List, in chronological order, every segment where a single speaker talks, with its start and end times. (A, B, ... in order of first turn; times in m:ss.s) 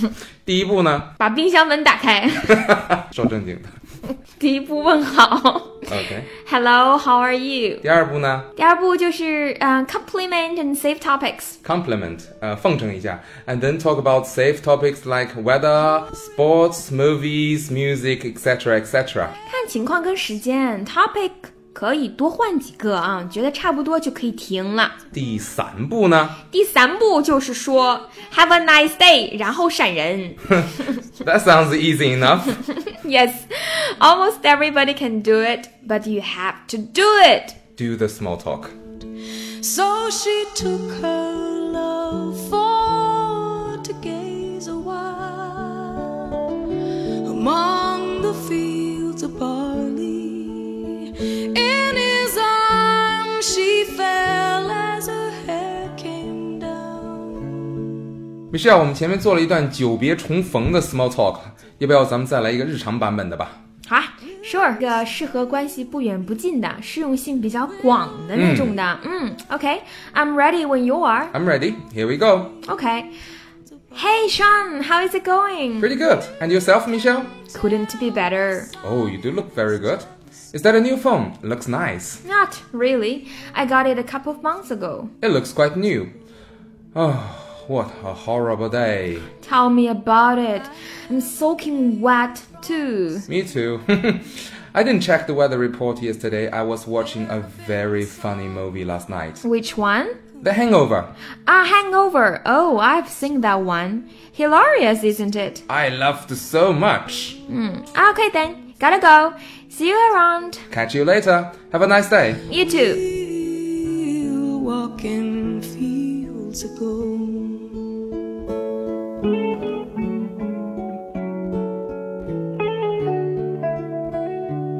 0:00.4-0:01.1 A
0:01.2-0:02.8 B
0:02.6-0:03.7 A
0:04.4-0:07.8 B
0:05.9-0:06.3 A
0:07.8-0:08.5 A
0:08.6-0:11.6 B
0:11.6-0:19.4 A
0:19.5-0:25.0 B
0:25.1-0:26.4 A
0:26.5-0:30.5 B
0:31.2-0:32.6 A
0:32.6-0:37.6 B
0:37.8-0:38.7 A
0:39.6-0:57.7 C
0:58.5-1:03.6 A
1:03.9-1:11.3 B
1:08.3-1:08.8 A
1:11.3-1:12.6 A
1:12.6-1:13.1 B
1:13.9-1:15.9 B
1:15.8-1:17.3 A
1:17.5-1:18.7 B
1:18.8-1:22.2 A
1:22.2-1:25.1 B
1:25.2-1:26.1 A
1:26.9-1:29.3 A
1:29.4-1:33.3 B
1:33.3-1:39.4 A
1:39.4-1:40.2 B
1:40.4-1:41.1 A
1:41.4-1:45.6 B
1:45.7-1:47.4 A
1:47.5-1:50.6 B
1:50.7-1:52.4 A
1:52.5-1:53.0 B
1:52.7-1:57.9 C